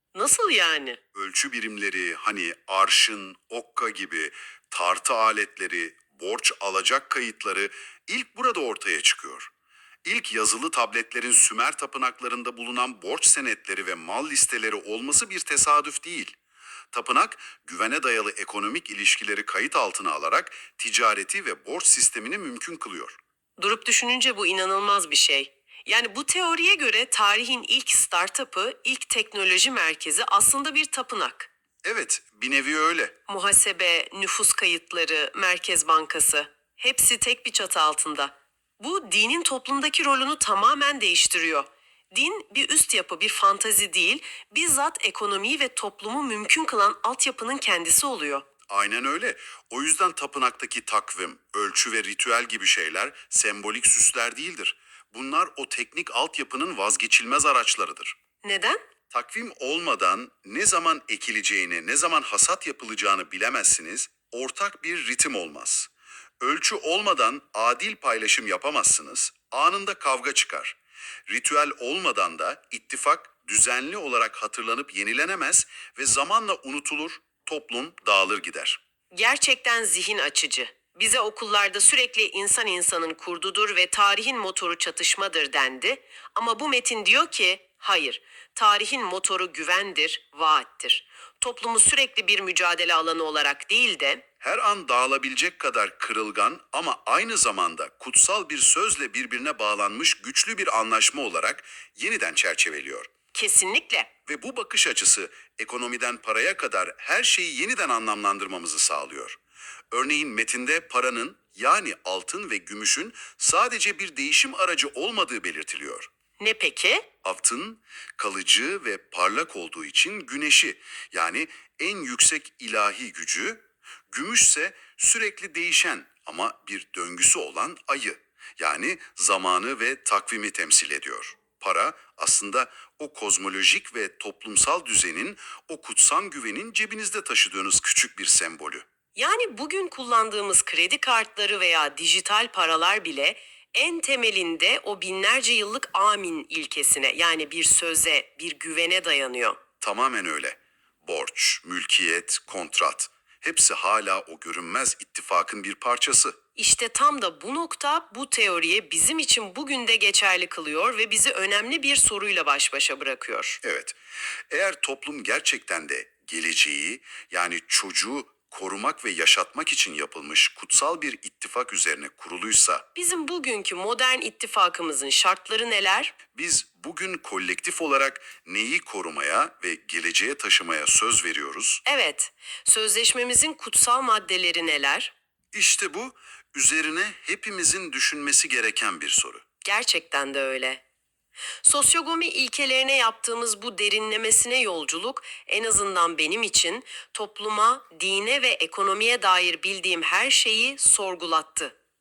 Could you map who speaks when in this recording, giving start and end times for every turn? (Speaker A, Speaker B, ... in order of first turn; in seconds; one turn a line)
Speaker A: 0.1-1.0
Speaker B: 1.1-9.5
Speaker B: 10.0-16.4
Speaker B: 16.9-23.2
Speaker A: 23.6-31.5
Speaker B: 31.8-33.2
Speaker A: 33.3-48.5
Speaker B: 48.7-58.2
Speaker A: 58.4-58.8
Speaker B: 59.1-78.8
Speaker A: 79.1-94.2
Speaker B: 94.4-103.1
Speaker A: 103.3-104.1
Speaker B: 104.3-109.4
Speaker B: 109.9-116.1
Speaker A: 116.4-117.1
Speaker B: 117.2-138.9
Speaker A: 139.2-149.6
Speaker B: 149.8-156.4
Speaker A: 156.6-163.6
Speaker B: 163.6-164.0
Speaker B: 164.5-172.8
Speaker A: 172.9-176.2
Speaker B: 176.3-181.8
Speaker A: 181.9-185.1
Speaker B: 185.5-189.4
Speaker A: 189.6-190.8
Speaker A: 191.6-201.8